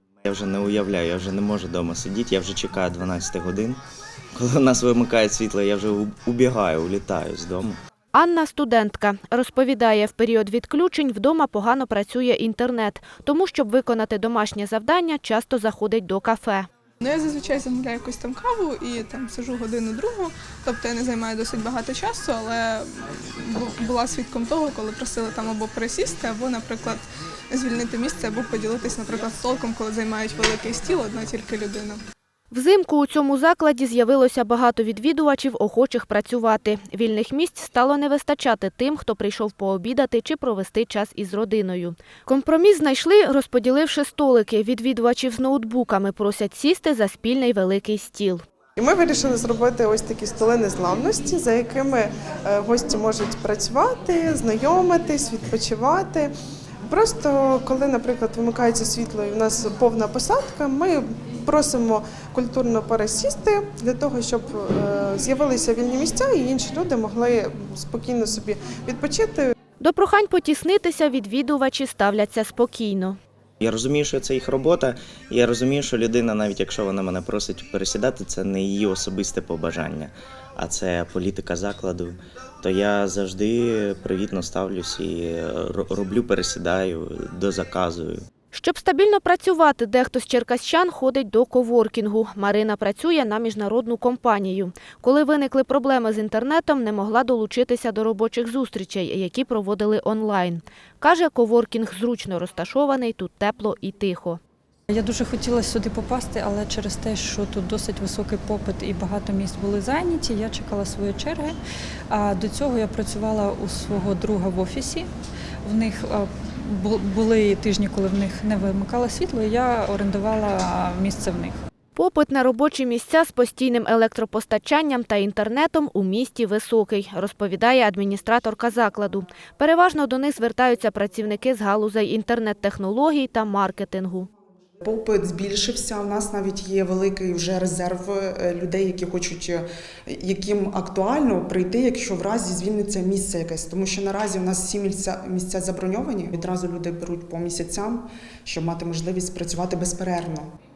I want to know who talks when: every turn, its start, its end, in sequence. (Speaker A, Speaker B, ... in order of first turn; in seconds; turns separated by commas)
Speaker A: 0.2-3.8, Speaker A: 4.4-7.8, Speaker B: 8.1-16.7, Speaker C: 17.0-32.0, Speaker B: 32.5-48.4, Speaker D: 48.8-56.3, Speaker D: 56.9-69.5, Speaker B: 69.8-73.2, Speaker A: 73.6-88.2, Speaker B: 88.5-104.4, Speaker E: 104.9-111.5, Speaker E: 112.1-115.1, Speaker E: 115.7-121.6, Speaker B: 122.0-134.3, Speaker F: 134.8-150.5